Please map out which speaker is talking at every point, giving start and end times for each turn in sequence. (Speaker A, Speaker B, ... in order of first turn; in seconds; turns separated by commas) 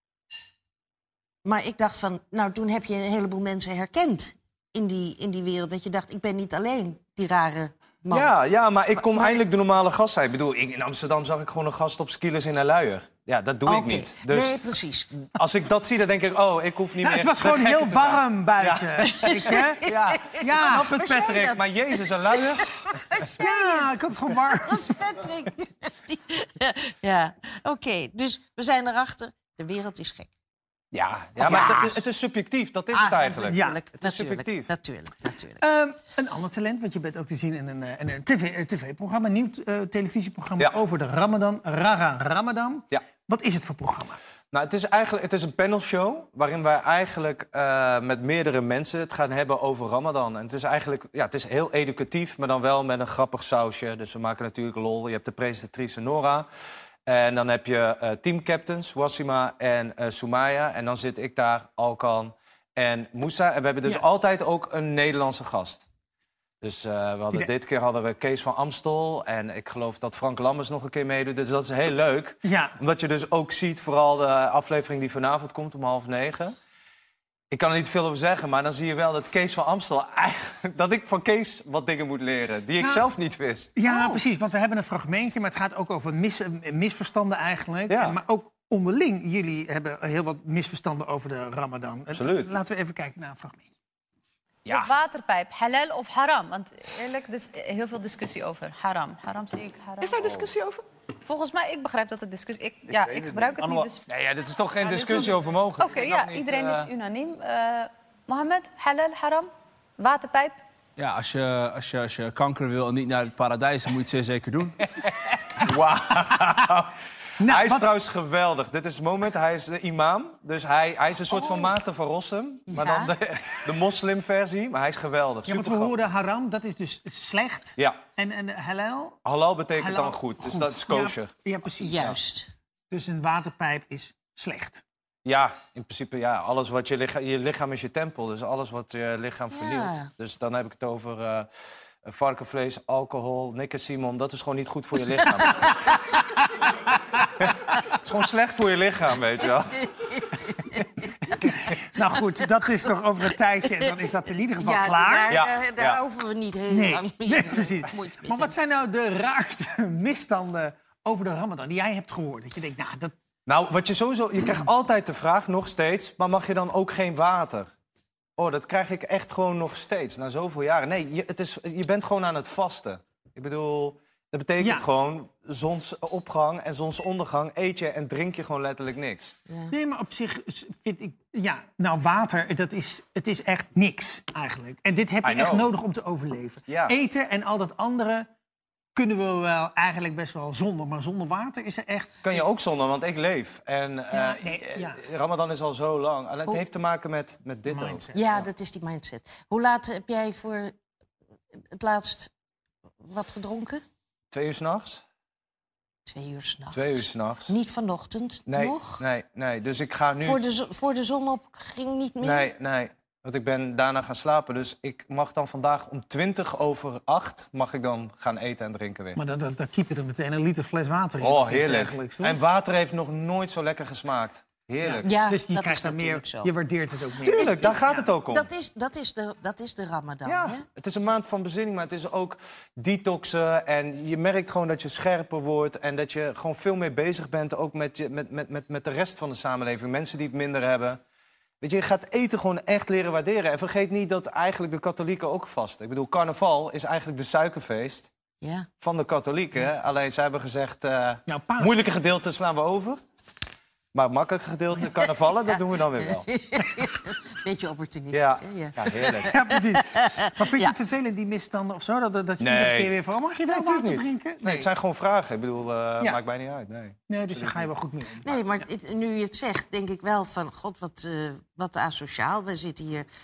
Speaker A: 1.4-8.3, Speaker B: 8.1-14.6, Speaker A: 8.9-9.4, Speaker A: 13.7-15.1, Speaker B: 15.3-23.2, Speaker C: 17.0-19.8, Speaker A: 19.0-21.7, Speaker C: 20.4-21.4, Speaker A: 22.3-30.3, Speaker C: 23.4-24.9, Speaker B: 30.9-34.7, Speaker A: 31.4-32.0, Speaker C: 31.4-31.9, Speaker A: 32.9-35.6, Speaker C: 33.5-33.8, Speaker C: 35.6-44.2, Speaker B: 44.5-56.5, Speaker B: 57.1-65.9, Speaker B: 66.6-76.5, Speaker C: 72.4-72.8, Speaker B: 77.5-83.8, Speaker C: 82.8-83.0, Speaker C: 83.8-93.7, Speaker A: 83.9-84.2, Speaker B: 87.9-88.2, Speaker B: 92.1-92.6, Speaker B: 94.7-94.9, Speaker D: 94.7-100.4, Speaker B: 100.0-100.8, Speaker D: 101.2-104.0, Speaker B: 103.0-106.9, Speaker D: 104.8-110.6, Speaker E: 111.0-114.9, Speaker B: 115.6-126.0, Speaker C: 117.4-117.9, Speaker A: 121.3-121.7, Speaker A: 122.7-123.1, Speaker C: 125.5-129.2, Speaker B: 129.2-131.3, Speaker C: 129.8-132.2, Speaker A: 131.8-132.5, Speaker B: 131.9-132.2, Speaker C: 132.9-134.8, Speaker B: 135.2-141.5, Speaker A: 139.5-140.1, Speaker B: 142.0-145.8, Speaker A: 145.6-145.9, Speaker B: 147.4-149.9, Speaker A: 149.8-150.8, Speaker C: 151.4-155.3, Speaker A: 154.6-158.5, Speaker B: 155.3-156.0, Speaker C: 156.7-163.1, Speaker B: 163.5-167.7, Speaker B: 168.4-179.4, Speaker C: 174.6-174.9, Speaker C: 179.7-188.3, Speaker B: 185.2-185.7, Speaker B: 186.7-187.0, Speaker C: 188.9-192.4, Speaker B: 192.2-198.1, Speaker C: 194.1-195.0, Speaker C: 197.7-198.3, Speaker A: 198.1-200.8, Speaker A: 201.6-202.3, Speaker A: 203.0-203.8, Speaker B: 204.3-205.0, Speaker A: 206.1-209.0, Speaker B: 206.7-207.5, Speaker B: 208.5-210.4, Speaker A: 210.2-212.5, Speaker B: 212.2-219.2, Speaker C: 219.2-222.4, Speaker B: 221.2-225.1, Speaker C: 224.8-228.0, Speaker A: 225.0-226.5, Speaker B: 227.2-228.5, Speaker A: 227.3-230.6, Speaker B: 230.2-241.0, Speaker B: 241.6-248.1, Speaker A: 248.4-248.7, Speaker B: 248.8-253.0, Speaker C: 251.3-251.7, Speaker B: 253.9-256.3, Speaker A: 254.9-260.8, Speaker B: 258.1-259.3, Speaker C: 259.3-264.7, Speaker B: 262.4-263.0, Speaker B: 263.5-267.7, Speaker C: 267.1-268.4, Speaker A: 268.2-273.1